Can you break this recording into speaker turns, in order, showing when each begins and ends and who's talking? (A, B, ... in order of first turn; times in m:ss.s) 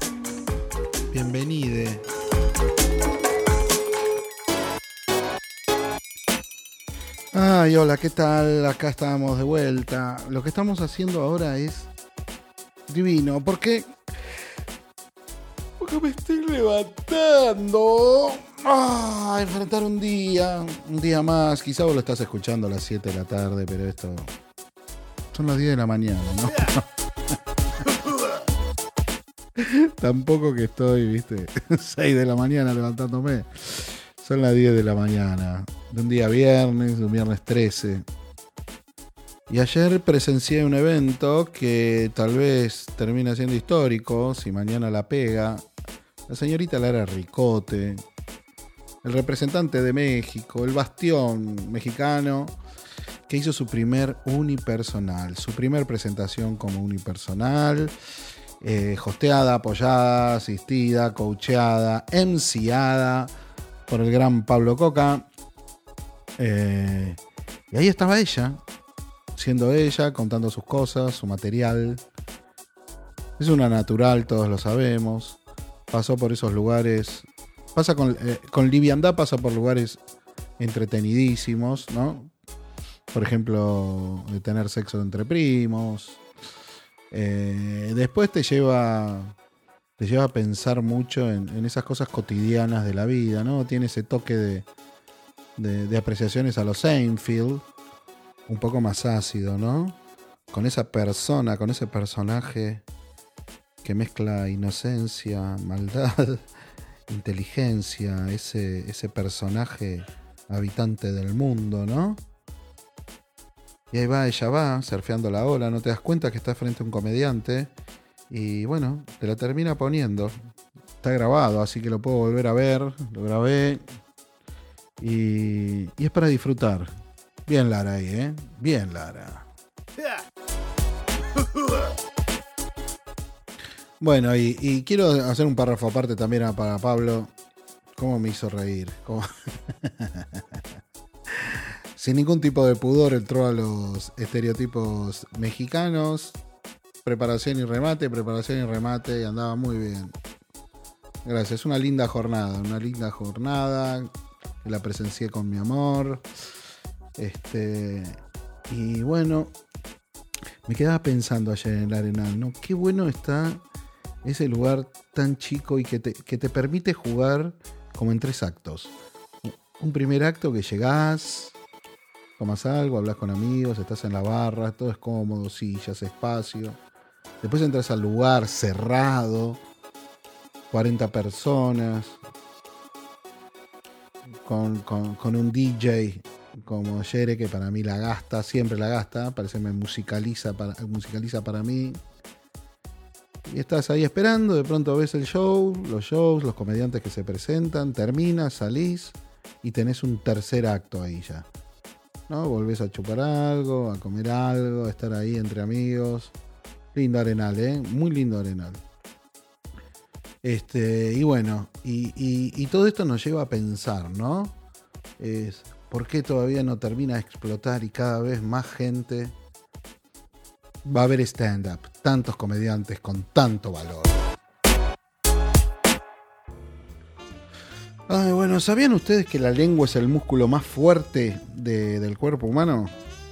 0:01.1-0:02.0 A
0:07.3-0:11.9 A
0:12.9-0:13.9 A
0:15.8-0:24.3 A
0:25.3-0:26.8 A
0:29.6-0:38.0 A
0:39.5-0:45.7 A
0:46.3-0:48.0 A
0:49.0-0:52.6 A
0:53.3-0:57.9 A
0:58.6-1:03.3 A
1:03.9-1:05.3 A
1:06.4-1:07.2 A
1:07.7-1:08.6 A
1:09.3-1:12.0 A
1:13.4-1:15.4 A
1:15.9-1:20.0 A
1:20.6-1:22.3 A
1:23.1-1:26.2 A
1:27.1-1:29.3 A
1:30.0-1:34.7 A
1:35.6-1:37.6 A
1:38.5-1:40.0 A
1:40.5-1:42.8 A
1:43.8-1:46.5 A
1:47.1-1:52.2 A
1:53.9-1:57.7 A
1:58.3-2:00.4 A
2:01.0-2:03.8 A
2:05.0-2:06.9 A
2:07.4-2:09.5 A
2:14.0-2:17.3 A
2:18.0-2:20.6 A
2:21.4-2:26.4 A
2:27.0-2:30.1 A
2:31.2-2:34.1 A
2:34.6-2:36.3 A
2:37.2-2:39.5 A
2:40.6-2:43.6 A
2:44.2-2:51.6 A
2:52.4-2:56.8 A
2:57.4-2:59.6 A
3:00.7-3:02.2 A
3:04.4-3:12.0 A
3:13.4-3:21.5 A
3:22.3-3:26.4 A
3:26.9-3:28.8 A
3:30.4-3:34.6 A
3:35.2-3:39.3 A
3:40.8-3:44.2 A
3:48.1-3:52.9 A